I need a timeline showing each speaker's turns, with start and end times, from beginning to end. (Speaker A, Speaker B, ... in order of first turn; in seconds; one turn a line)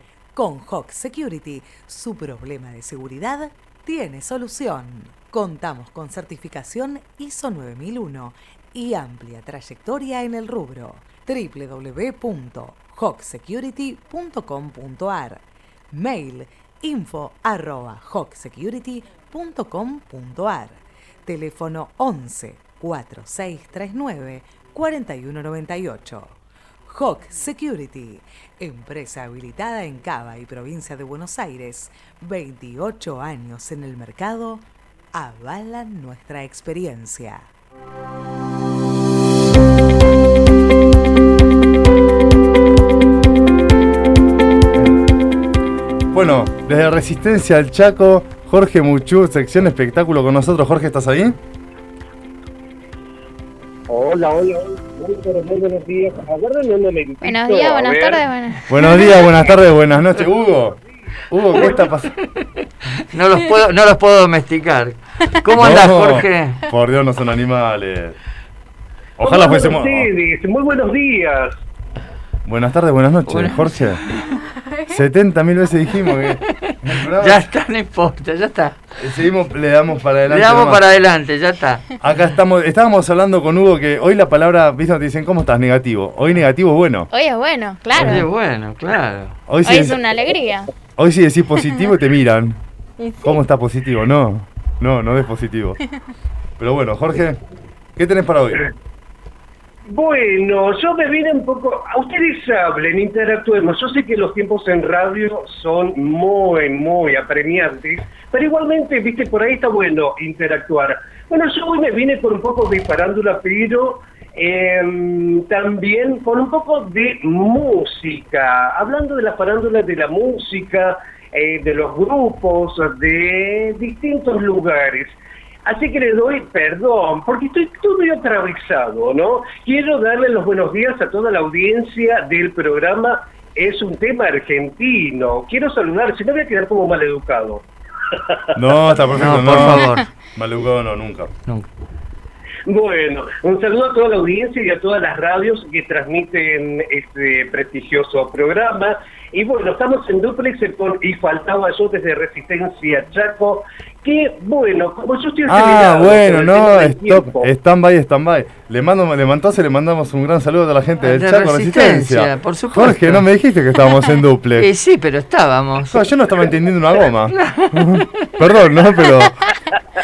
Speaker A: 0.3-37.5
Speaker B: 46.1-51.4
Speaker C: 53.9-58.0
Speaker D: 57.2-59.3
Speaker B: 58.7-60.8
Speaker B: 61.3-62.1
Speaker E: 63.1-66.6
Speaker B: 65.6-68.2
Speaker B: 69.2-70.1
Speaker F: 69.2-71.6
Speaker B: 72.5-74.0
Speaker E: 73.3-74.4
Speaker B: 74.9-77.5
Speaker E: 76.7-78.8
Speaker B: 79.0-80.8
Speaker E: 80.3-81.8
Speaker B: 82.0-87.1
Speaker D: 87.1-88.3
Speaker E: 87.9-89.4
Speaker B: 88.0-88.2
Speaker B: 89.5-90.0
Speaker D: 89.6-90.7
Speaker B: 91.0-92.6
Speaker B: 93.2-95.8
Speaker B: 96.6-97.4
Speaker B: 98.0-98.7
Speaker F: 99.9-137.7
Speaker B: 138.5-141.3
Speaker E: 139.2-140.1
Speaker F: 142.7-157.5
Speaker B: 155.5-164.7
Speaker E: 161.0-163.2
Speaker E: 164.6-166.0
Speaker B: 165.8-169.4
Speaker E: 167.3-168.3